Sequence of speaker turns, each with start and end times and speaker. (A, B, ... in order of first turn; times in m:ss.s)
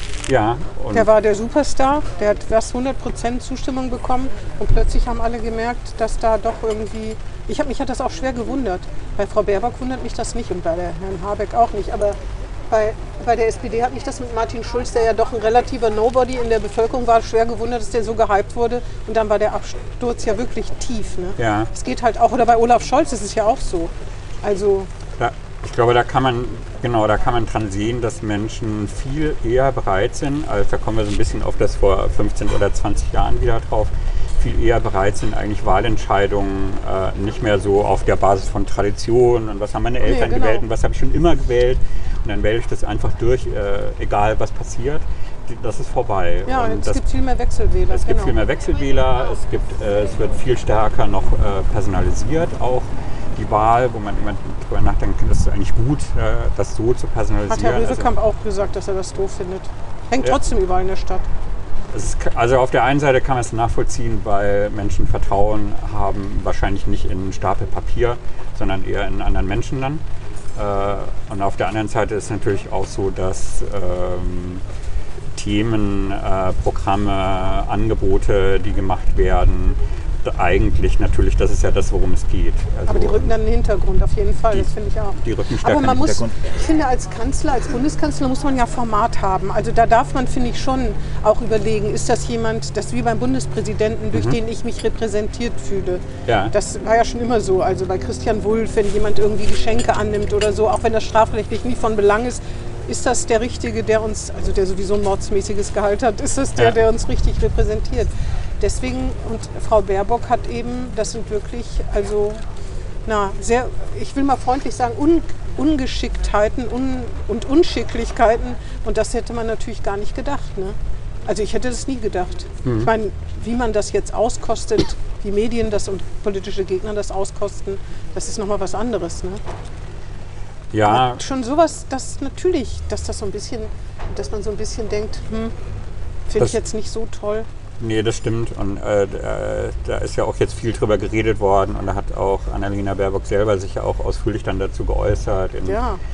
0:00.3-0:01.1 A
0:00.9-0:12.2 B
0:12.7-0:23.9 B
0:21.4-0:21.7 A
0:24.4-0:24.9 B
0:25.2-0:47.0 A
0:40.0-0:40.6 B
0:46.5-0:48.4 B
0:47.9-0:58.1 A
0:57.5-1:01.3 B
1:01.9-1:10.0 A
1:10.6-1:14.6 A
1:15.4-1:23.3 A
1:22.9-1:52.4 B
1:24.5-1:26.4 A
1:34.1-1:34.4 A
1:36.3-1:36.5 A
1:53.1-2:09.4 B
2:02.6-2:02.9 A
2:10.7-2:11.2 A
2:10.9-2:15.5 B
2:16.3-2:17.5 B
2:17.8-2:25.8 A
2:25.7-2:26.0 B